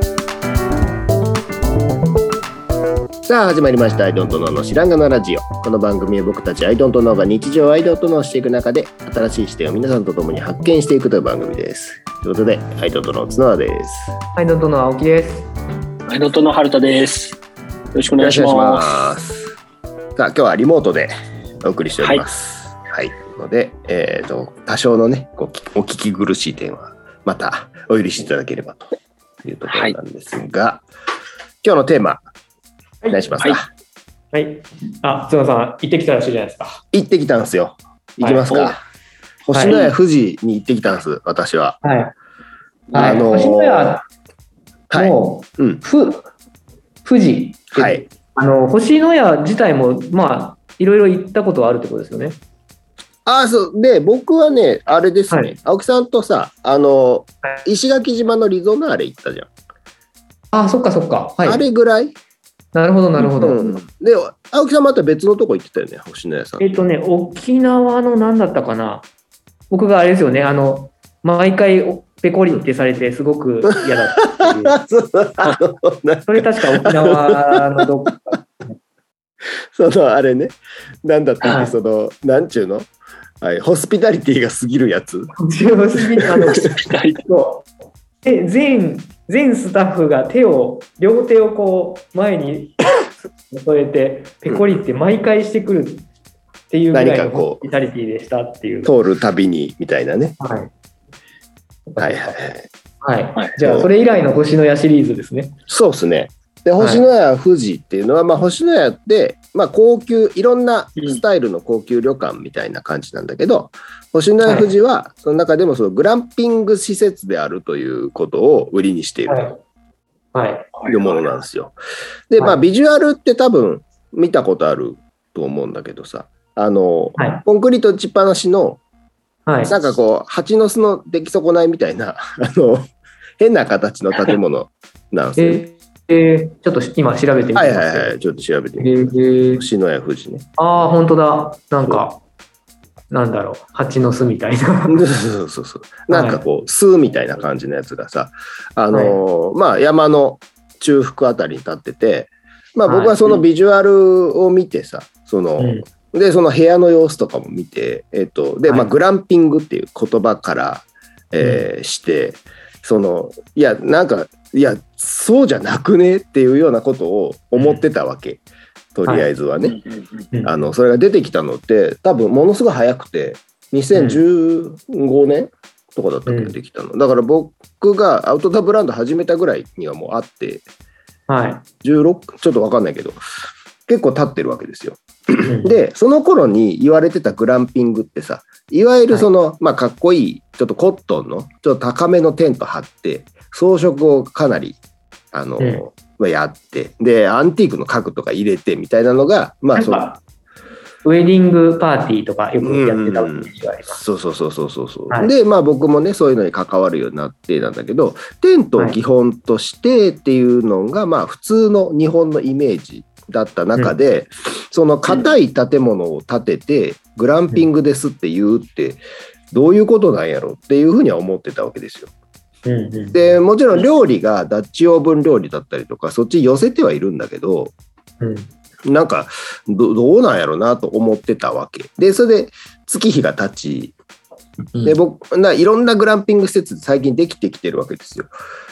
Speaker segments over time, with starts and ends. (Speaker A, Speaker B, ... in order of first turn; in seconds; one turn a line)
Speaker A: 3.2-14.1
Speaker B: 14.3-15.5
Speaker C: 16.1-17.4
Speaker C: 17.9-19.0
Speaker A: 18.2-19.5
Speaker A: 20.1-21.1
Speaker A: 21.6-28.8
Speaker C: 22.0-22.2
Speaker A: 29.4-30.8
Speaker C: 29.7-30.0
Speaker A: 31.6-32.2
Speaker B: 33.0-33.3
Speaker A: 33.1-33.7
Speaker B: 34.3-36.8
Speaker A: 36.9-38.8
Speaker B: 38.2-38.5
Speaker C: 38.5-38.7
Speaker A: 39.5-41.8
Speaker B: 39.5-39.8
Speaker C: 39.7-39.9
Speaker B: 41.8-42.1
Speaker C: 42.9-43.3
Speaker A: 42.9-44.0
Speaker B: 42.9-44.0
Speaker A: 44.9-45.8
Speaker B: 44.9-46.2
Speaker B: 47.0-52.4
Speaker A: 47.7-48.0
Speaker A: 53.2-59.5
Speaker B: 60.5-61.6
Speaker A: 61.4-62.1
Speaker B: 62.7-63.8
Speaker A: 63.2-66.8
Speaker B: 66.6-69.0
Speaker B: 69.7-74.8
Speaker A: 73.7-77.8
Speaker B: 76.3-78.4
Speaker A: 79.7-82.9
Speaker B: 81.5-81.7
Speaker A: 83.4-85.3
Speaker B: 85.4-87.7
Speaker A: 86.2-86.7
Speaker C: 86.6-87.2
Speaker B: 88.2-96.0
Speaker B: 96.7-98.9
Speaker A: 96.9-97.6
Speaker A: 98.8-100.4
Speaker B: 100.4-100.7
Speaker B: 101.9-102.3
Speaker A: 102.0-102.7
Speaker B: 103.0-105.5
Speaker A: 103.6-103.9
Speaker A: 105.7-119.4
Speaker B: 106.8-107.0
Speaker B: 114.4-114.7
Speaker B: 119.3-119.6
Speaker B: 120.3-120.7
Speaker C: 120.8-121.3
Speaker A: 120.9-121.7
Speaker A: 122.3-128.8
Speaker B: 122.4-122.6
Speaker B: 127.2-127.4
Speaker B: 129.4-129.7
Speaker A: 129.7-132.8
Speaker A: 133.4-135.6
Speaker B: 135.4-138.1
Speaker A: 137.6-140.4
Speaker B: 138.8-139.6
Speaker B: 140.6-142.2
Speaker B: 143.1-145.0
Speaker A: 144.9-168.4
Speaker B: 146.1-146.4
Speaker B: 148.9-149.2
Speaker B: 152.9-153.4
Speaker B: 155.6-155.8
Speaker B: 161.4-161.7
Speaker B: 167.5-167.8
Speaker A: 168.9-169.8
Speaker C: 169.6-170.3
Speaker B: 170.3-170.7
Speaker A: 170.4-180.6
Speaker B: 173.9-174.2
Speaker B: 176.3-176.5
Speaker B: 181.3-181.6
Speaker A: 181.8-183.2
Speaker A: 183.9-194.8
Speaker B: 185.4-185.8
Speaker A: 195.3-200.0
Speaker B: 199.8-200.2
Speaker B: 201.0-204.0
Speaker A: 202.6-219.0
Speaker A: 219.5-222.1
Speaker B: 222.6-223.4
Speaker A: 223.1-227.7
Speaker B: 228.2-228.5
Speaker A: 228.8-233.9
Speaker A: 234.8-238.3